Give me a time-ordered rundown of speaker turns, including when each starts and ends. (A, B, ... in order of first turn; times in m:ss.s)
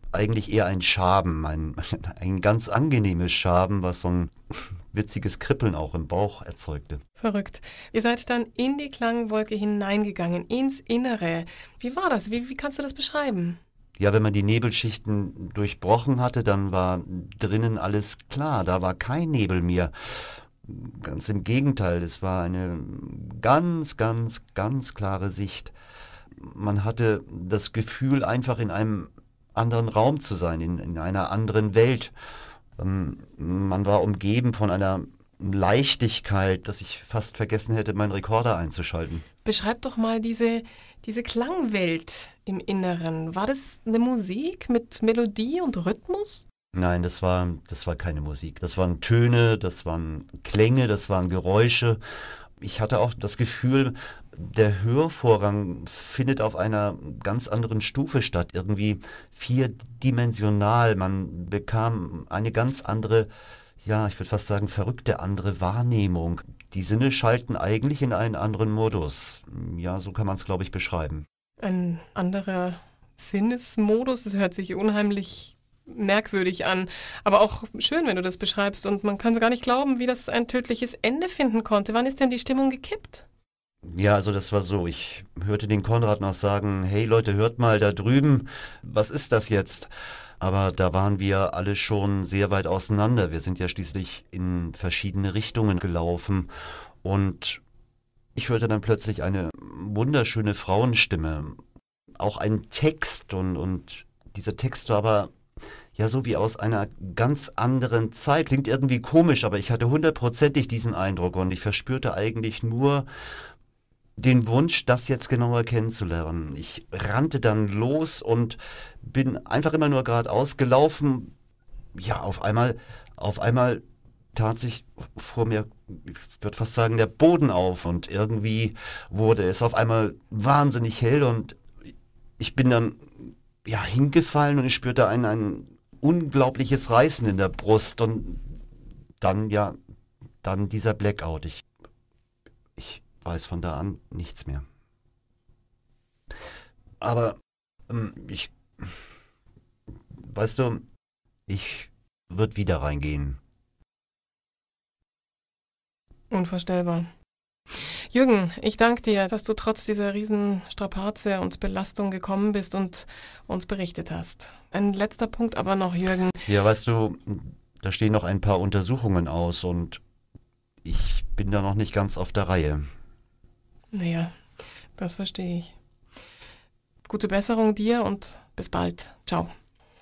0:00.1-0:07.0 A
0:07.2-0:13.6 B
0:14.0-0:25.7 A
0:26.4-0:32.1 A
0:32.8-0:39.2 A
0:39.4-0:46.5 B
0:46.7-0:52.0 A
0:52.6-1:03.3 A
1:03.8-1:11.2 A
1:11.6-1:23.3 B
1:23.8-1:36.5 A
1:37.0-1:37.6 A
1:38.4-1:41.6 A
1:42.2-1:45.3 A
1:46.0-1:53.1 A
1:54.2-2:01.3 A
2:02.0-2:03.8 A
2:04.4-2:11.6 A
2:12.4-2:18.6 A
2:19.2-2:19.8 A
2:20.4-2:21.6 A
2:22.8-2:24.6 A
2:27.0-2:27.4 A
2:27.9-2:29.0 A
2:30.1-2:30.8 A
2:31.5-2:33.4 A
2:36.3-2:37.1 B
2:38.1-2:46.4 B
2:46.5-2:50.0 A
2:50.8-2:52.8 A
2:53.9-2:54.4 B
2:55.0-2:55.8 B
2:57.1-2:59.5 B